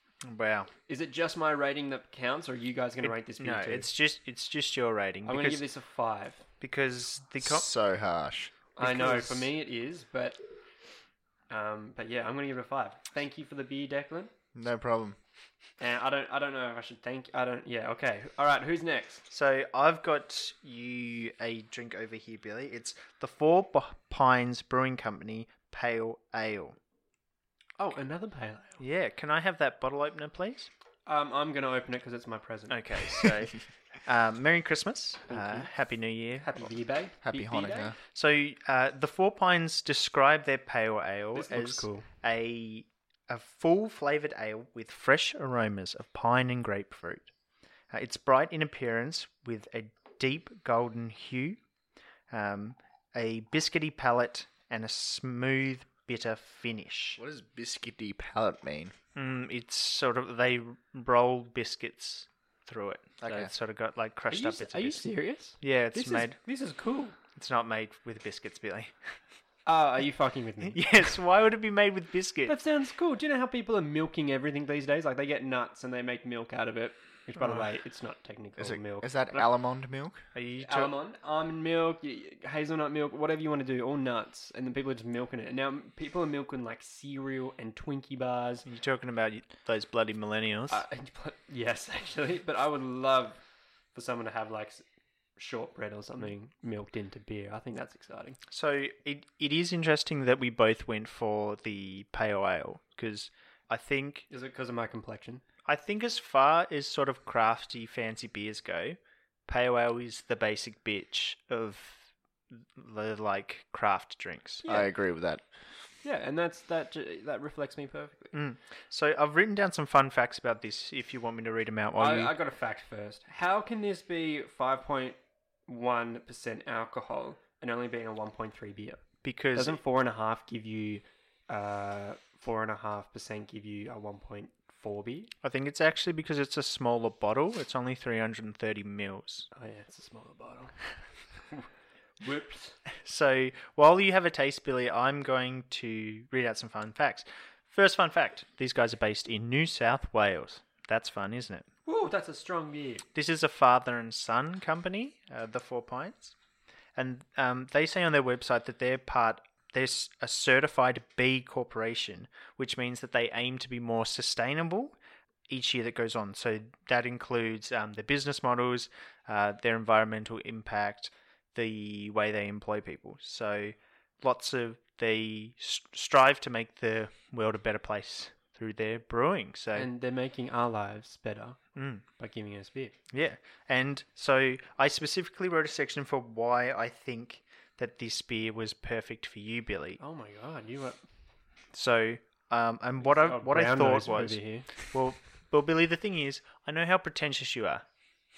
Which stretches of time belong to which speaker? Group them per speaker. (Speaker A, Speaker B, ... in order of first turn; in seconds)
Speaker A: 0.2-0.7, 3.0-5.7, 6.6-7.7, 8.8-9.4, 19.3-26.8, 28.8-30.7, 32.7-36.5, 38.1-47.3, 47.9-51.6, 52.3-57.2, 59.1-65.1, 65.6-66.4, 67.3-68.9, 70.7-72.5, 77.4-77.7, 80.3-81.0, 88.7-90.8, 98.5-104.3, 105.7-112.0, 112.6-114.7, 118.3-122.3, 129.2-129.8, 135.4-139.5, 143.1-151.7, 153.2-156.3, 157.0-165.0, 165.5-179.9, 181.8-182.0, 183.1-190.0, 191.7-197.8
Speaker B: 0.9-3.9, 5.3-6.4, 8.8-10.4, 11.5-14.3, 15.8-19.2, 27.8-28.8, 31.1-33.2, 35.3-35.7, 36.4-37.9, 41.4-42.1, 64.3-67.2, 69.7-70.9, 72.5-79.5, 80.6-88.7, 90.7-93.4, 93.9-94.8, 95.4-98.4, 104.3-105.4, 116.0-118.3, 122.0-129.0, 129.6-135.3, 139.6-140.8, 142.2-142.8, 151.9-153.0, 179.8-181.6, 182.2-182.9, 190.0-191.0, 193.0-194.7
Speaker C: 7.4-8.7, 14.6-15.2, 37.2-38.0, 57.2-58.9, 63.2-63.5, 78.6-80.2, 114.7-115.4